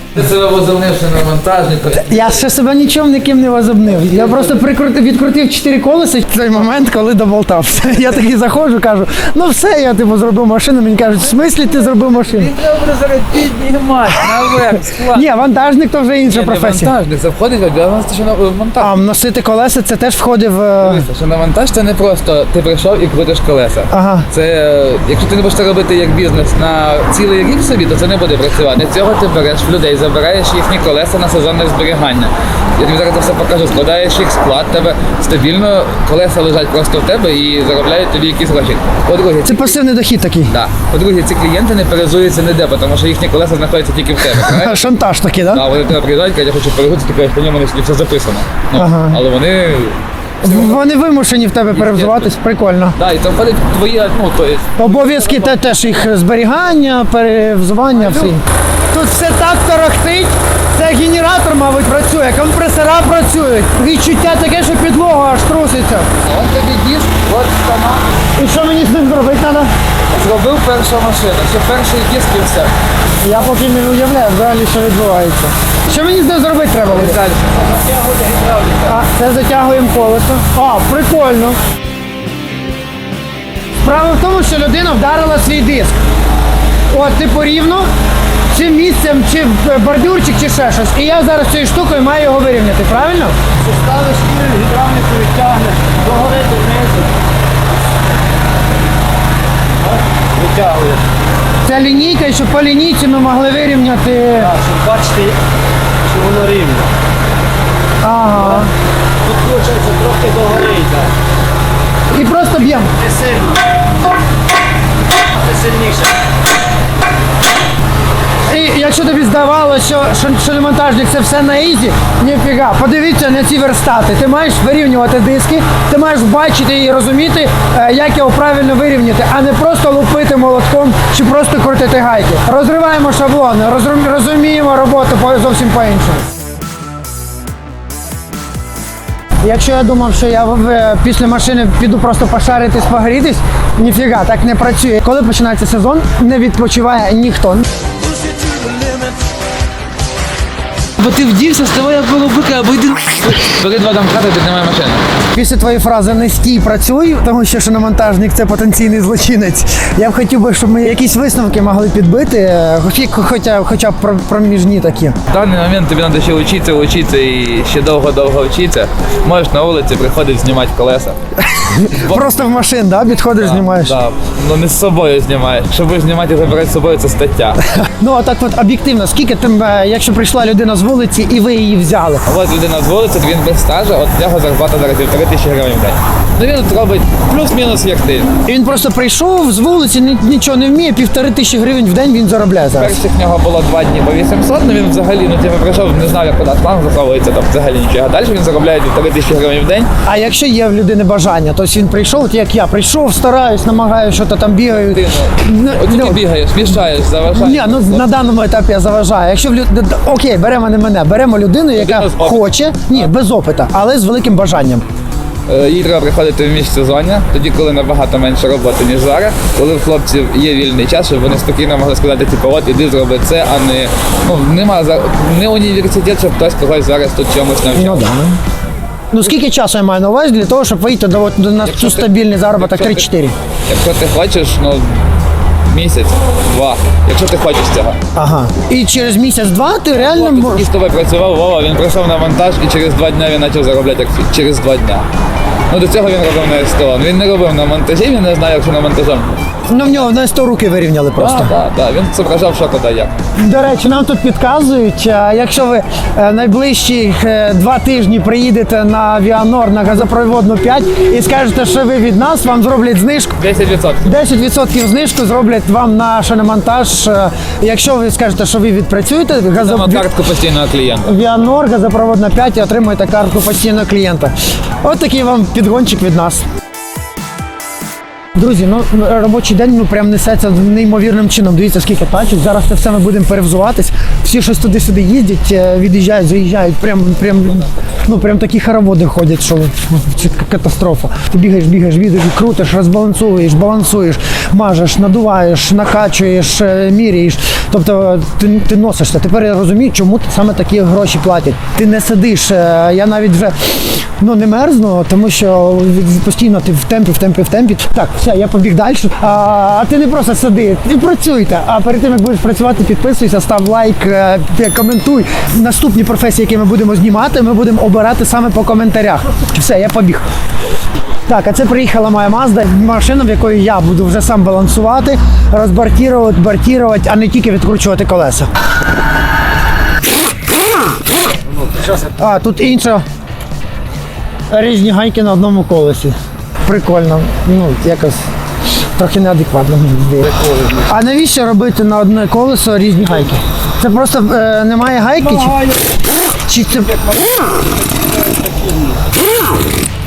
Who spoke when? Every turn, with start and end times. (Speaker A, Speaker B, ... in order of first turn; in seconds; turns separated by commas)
Speaker A: 0.1-2.4, Speaker B: 1.9-12.5, Speaker A: 11.7-15.3, Speaker B: 15.0-16.9, Speaker A: 16.3-18.9, Speaker B: 18.8-21.1, Speaker A: 20.8-39.8, Speaker B: 23.9-24.3, Speaker B: 39.4-40.5, Speaker A: 40.5-44.9, Speaker B: 44.4-45.6, Speaker A: 45.5-50.8, Speaker B: 48.7-49.2, Speaker B: 50.4-53.0, Speaker A: 51.7-52.3, Speaker A: 53.0-55.5, Speaker B: 54.8-66.1, Speaker A: 57.9-58.4, Speaker A: 66.2-68.0, Speaker B: 68.3-69.7, Speaker A: 70.1-72.7, Speaker B: 73.2-77.2, Speaker A: 76.9-77.5, Speaker C: 77.7-78.9, Speaker B: 78.8-81.6, Speaker B: 83.8-86.0, Speaker B: 86.9-87.9, Speaker B: 88.5-93.3, Speaker C: 93.6-97.1, Speaker C: 99.8-101.0, Speaker B: 101.6-104.5, Speaker C: 104.4-105.4, Speaker C: 106.0-106.9, Speaker B: 108.0-108.7, Speaker C: 109.2-111.1, Speaker B: 112.1-112.9, Speaker C: 113.0-113.6, Speaker C: 115.4-116.1, Speaker B: 118.5-136.2, Speaker B: 139.4-147.7, Speaker A: 151.0-155.0, Speaker B: 155.3-165.2, Speaker A: 165.3-171.2, Speaker B: 171.5-174.0, Speaker A: 171.9-172.2, Speaker A: 173.3-177.6, Speaker B: 177.8-182.2, Speaker A: 182.2-188.3, Speaker B: 188.4-193.0, Speaker A: 192.8-199.9, Speaker B: 200.1-206.2, Speaker A: 204.7-208.1, Speaker B: 207.3-214.8, Speaker A: 211.7-213.1, Speaker A: 215.5-228.1, Speaker B: 227.7-228.4, Speaker B: 229.1-233.3, Speaker A: 231.6-233.1, Speaker A: 233.7-235.0, Speaker A: 235.7-238.0, Speaker B: 238.1-240.7, Speaker A: 239.9-245.1, Speaker A: 245.7-249.4, Speaker B: 249.7-251.6, Speaker A: 251.2-253.1, Speaker B: 253.3-263.4, Speaker A: 263.4-264.2, Speaker B: 264.0-270.1, Speaker A: 269.6-271.1, Speaker B: 271.1-276.4, Speaker B: 278.4-320.2, Speaker B: 321.2-328.5, Speaker B: 332.2-333.0, Speaker B: 334.5-338.2, Speaker B: 338.9-345.6, Speaker B: 346.4-347.1, Speaker C: 348.4-348.8